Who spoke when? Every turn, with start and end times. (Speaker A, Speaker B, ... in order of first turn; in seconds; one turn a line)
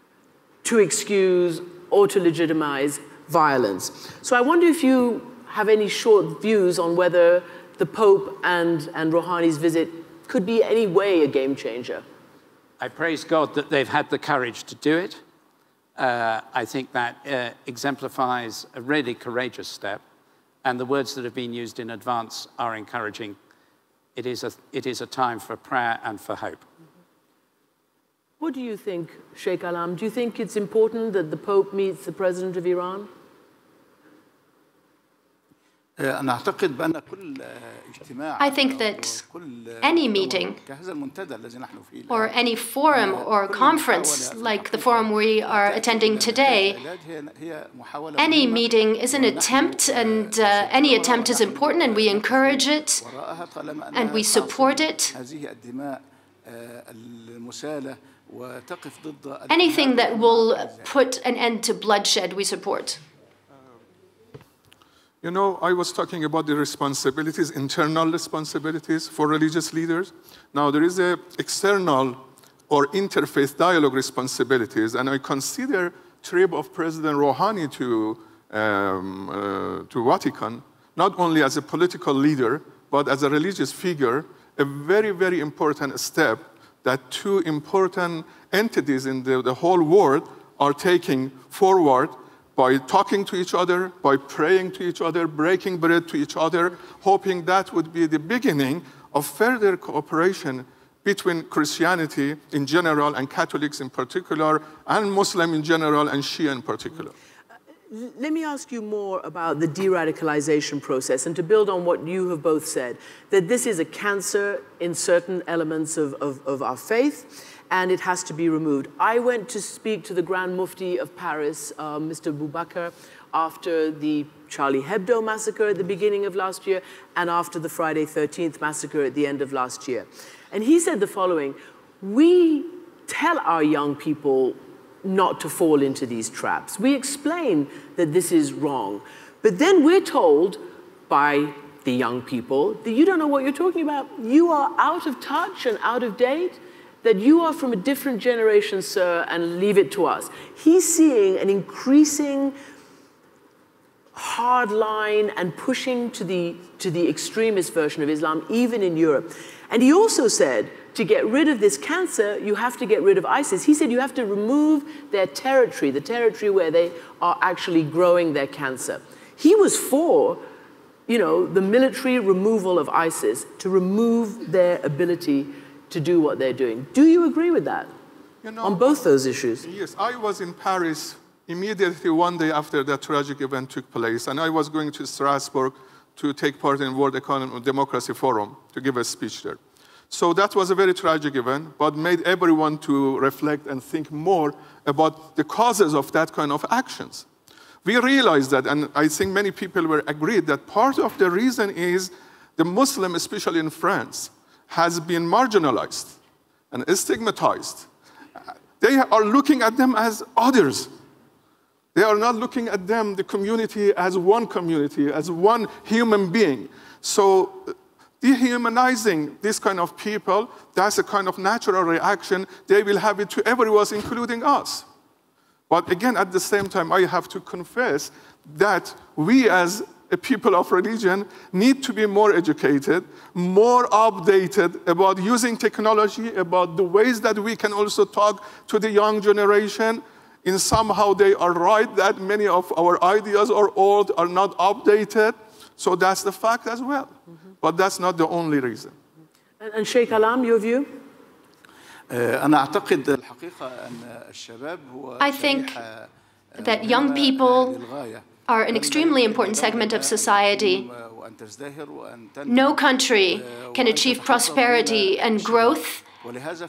Speaker A: 0.6-12.0
Speaker B: 12.8-15.2
Speaker B: 15.9-20.0
Speaker B: 20.6-23.4
Speaker B: 24.1-26.6
Speaker A: 28.4-33.1
Speaker C: 38.4-39.2
Speaker C: 39.8-40.6
Speaker C: 42.1-46.8
Speaker C: 48.2-53.1
Speaker C: 53.9-55.2
Speaker C: 59.5-63.0
Speaker D: 65.2-107.1
Speaker A: 107.9-152.6
Speaker A: 154.1-170.4
Speaker A: 171.1-177.9
Speaker D: 178.4-179.0
Speaker A: 178.6-179.7
Speaker D: 179.6-197.2
Speaker D: 197.8-206.2
Speaker D: 206.7-207.9
Speaker D: 208.8-210.9
Speaker D: 211.9-224.8
Speaker D: 225.7-248.9
Speaker A: 249.6-251.0
Speaker C: 255.2-255.8
Speaker C: 256.6-257.8
Speaker C: 258.5-260.9
Speaker C: 262.5-266.0